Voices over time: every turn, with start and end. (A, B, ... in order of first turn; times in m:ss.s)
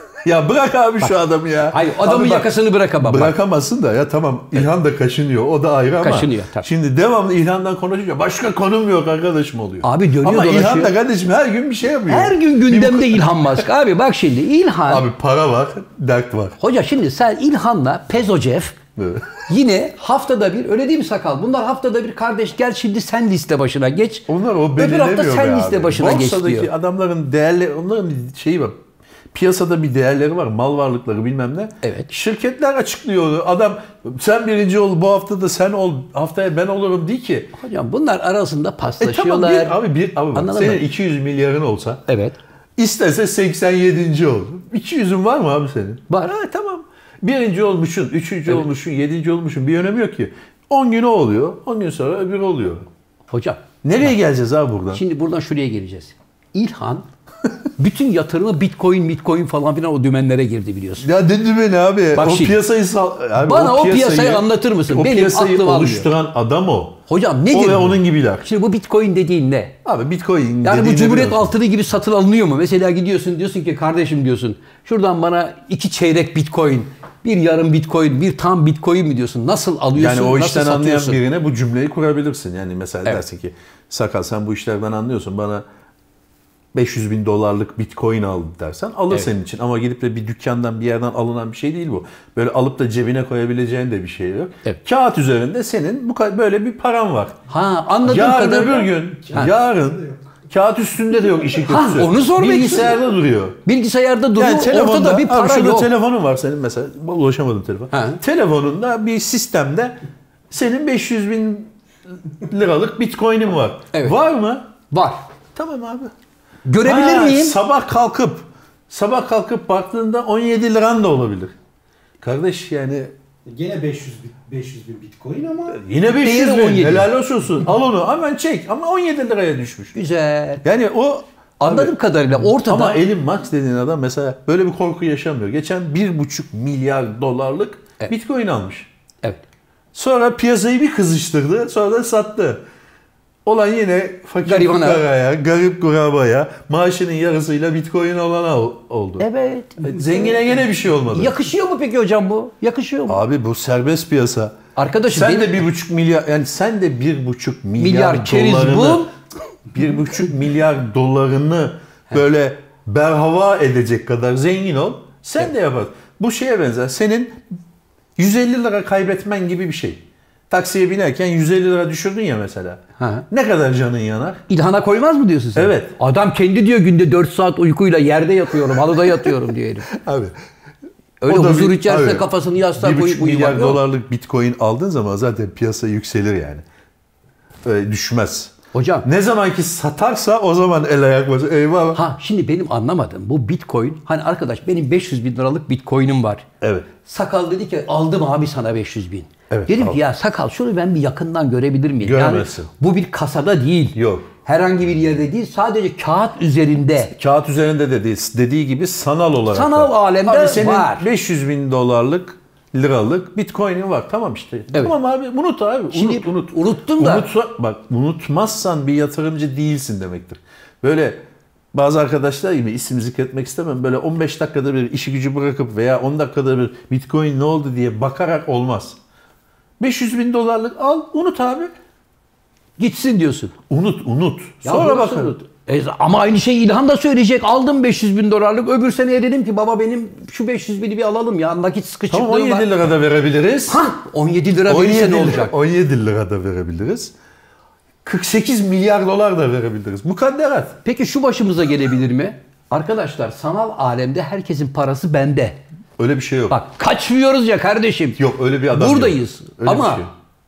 0:00.2-0:13.6 A
0:01.7-0:03.3 B
0:06.0-0:06.7 B
0:09.8-0:10.9 B
0:12.1-0:15.0 B
0:14.9-0:16.6 A
0:16.6-0:18.8 B
0:19.0-0:19.4 A
0:19.5-0:26.7 B
0:24.3-0:28.8 A
0:29.3-0:37.5 A
0:31.8-0:32.1 B
0:37.6-0:39.8 B
0:39.0-0:42.0 A
0:40.3-0:40.8 B
0:42.1-0:42.4 B
0:42.8-0:52.9 A
0:53.3-0:53.7 B
0:53.8-0:55.0 A
0:54.9-0:57.0 B
0:57.8-1:01.1 B
1:01.0-1:07.0 A
1:02.1-1:02.6 B
1:03.4-1:06.1 B
1:07.1-1:09.8 B
1:07.5-1:08.4 A
1:09.8-1:11.5 A
1:10.6-1:21.2 B
1:19.9-1:25.6 A
1:26.7-1:37.4 A
1:37.5-1:39.5 B
1:38.0-1:43.6 A
1:39.4-1:40.1 C
1:41.6-1:43.0 B
1:43.6-1:45.9 B
1:44.4-1:50.0 A
1:47.9-1:48.2 B
1:50.5-1:51.7 A
1:52.3-1:54.7 A
1:53.9-1:54.2 B
1:54.9-1:55.2 B
1:55.5-1:56.1 A
1:56.6-1:57.6 B
1:56.8-2:01.5 A
2:02.2-2:03.1 A
2:03.4-2:05.8 C
2:05.7-2:10.0 A
2:06.1-2:07.1 B
2:09.9-2:10.6 B
2:10.6-2:11.9 A
2:11.6-2:13.0 B
2:12.5-2:18.9 A
2:19.9-2:22.6 A
2:23.4-2:29.2 A
2:24.4-2:25.0 B
2:29.2-2:30.3 B
2:29.8-2:31.3 A
2:31.1-2:33.2 B
2:33.1-2:34.6 A
2:34.8-2:35.6 B
2:35.1-2:39.1 A
2:37.8-2:39.1 B
2:39.7-2:47.4 A
2:48.2-2:54.4 A
2:53.0-2:53.2 B
2:54.5-2:59.9 B
2:55.6-2:55.9 A
2:59.9-3:00.4 A
3:01.2-3:03.8 B
3:01.2-3:06.6 A
3:07.6-3:12.0 A
3:08.7-3:09.1 B
3:11.9-3:16.4 B
3:16.6-3:16.9 A
3:17.0-3:27.1 B
3:19.5-3:20.0 A
3:22.0-3:22.7 A
3:23.9-3:24.3 A
3:27.1-3:41.2 A
3:29.5-3:31.1 B
3:35.9-3:37.3 B
3:41.7-3:49.0 A
3:49.8-3:51.7 A
3:52.8-3:53.5 B
3:53.7-3:55.4 A
3:54.6-4:02.8 B
4:02.1-4:03.8 A
4:03.7-4:05.5 B
4:04.7-4:07.1 A
4:08.0-4:10.8 A
4:10.8-4:15.6 B
4:16.0-4:16.6 A
4:16.5-4:20.1 B
4:18.2-4:20.1 A